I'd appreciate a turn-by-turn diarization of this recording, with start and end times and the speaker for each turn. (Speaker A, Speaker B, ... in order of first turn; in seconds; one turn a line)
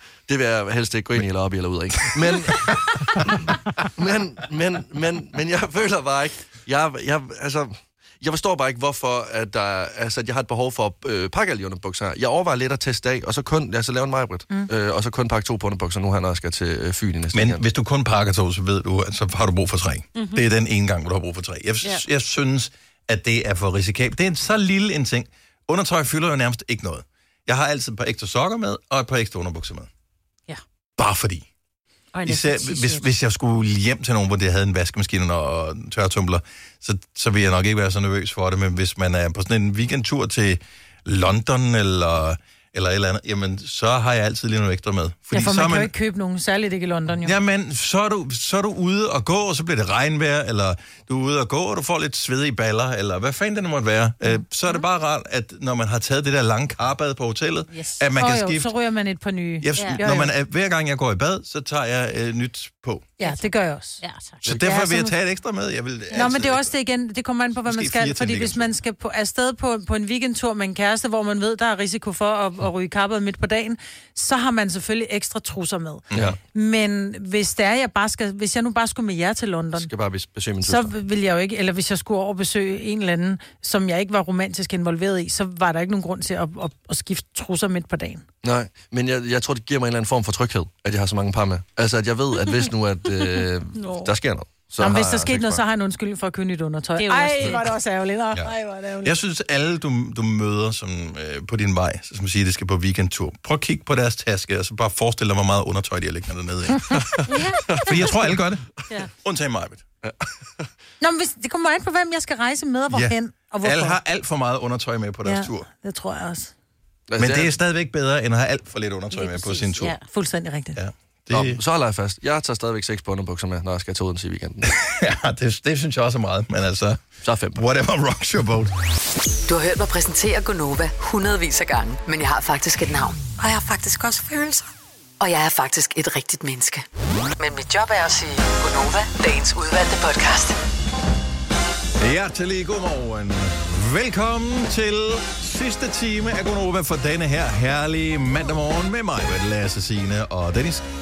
Speaker A: 0.3-17.6
Speaker B: 17.3-29.9
Speaker C: 20.2-20.4
Speaker B: 31.0-31.5
Speaker C: 32.1-33.0
Speaker B: 32.2-45.9
Speaker D: 45.3-47.4
Speaker B: 47.2-58.7
Speaker C: 57.7-58.0
Speaker D: 58.1-60.3
Speaker B: 59.6-63.1
Speaker C: 59.8-60.0
Speaker D: 63.2-64.0
Speaker C: 63.2-64.4
Speaker B: 64.4-66.7
Speaker D: 64.5-65.1
Speaker D: 66.1-79.9
Speaker B: 67.7-68.7
Speaker B: 76.1-76.4
Speaker A: 76.1-76.4
Speaker A: 79.8-80.9
Speaker D: 80.6-88.2
Speaker A: 88.4-95.6
Speaker D: 94.8-99.2
Speaker C: 97.0-97.6
Speaker B: 98.3-107.0
Speaker C: 107.3-107.8
Speaker B: 107.8-108.7
Speaker B: 109.2-109.8
Speaker A: 110.0-110.7
Speaker D: 111.0-114.0
Speaker B: 112.9-115.7
Speaker D: 115.2-116.5
Speaker A: 117.1-117.5
Speaker B: 117.2-120.0
Speaker C: 119.1-120.0
Speaker D: 120.1-120.8
Speaker B: 120.8-121.6
Speaker A: 121.3-124.7
Speaker B: 124.6-127.0
Speaker A: 127.2-127.7
Speaker B: 127.6-128.7
Speaker E: 129.5-134.7
Speaker E: 135.2-136.8
Speaker E: 137.4-140.6
Speaker B: 142.0-150.9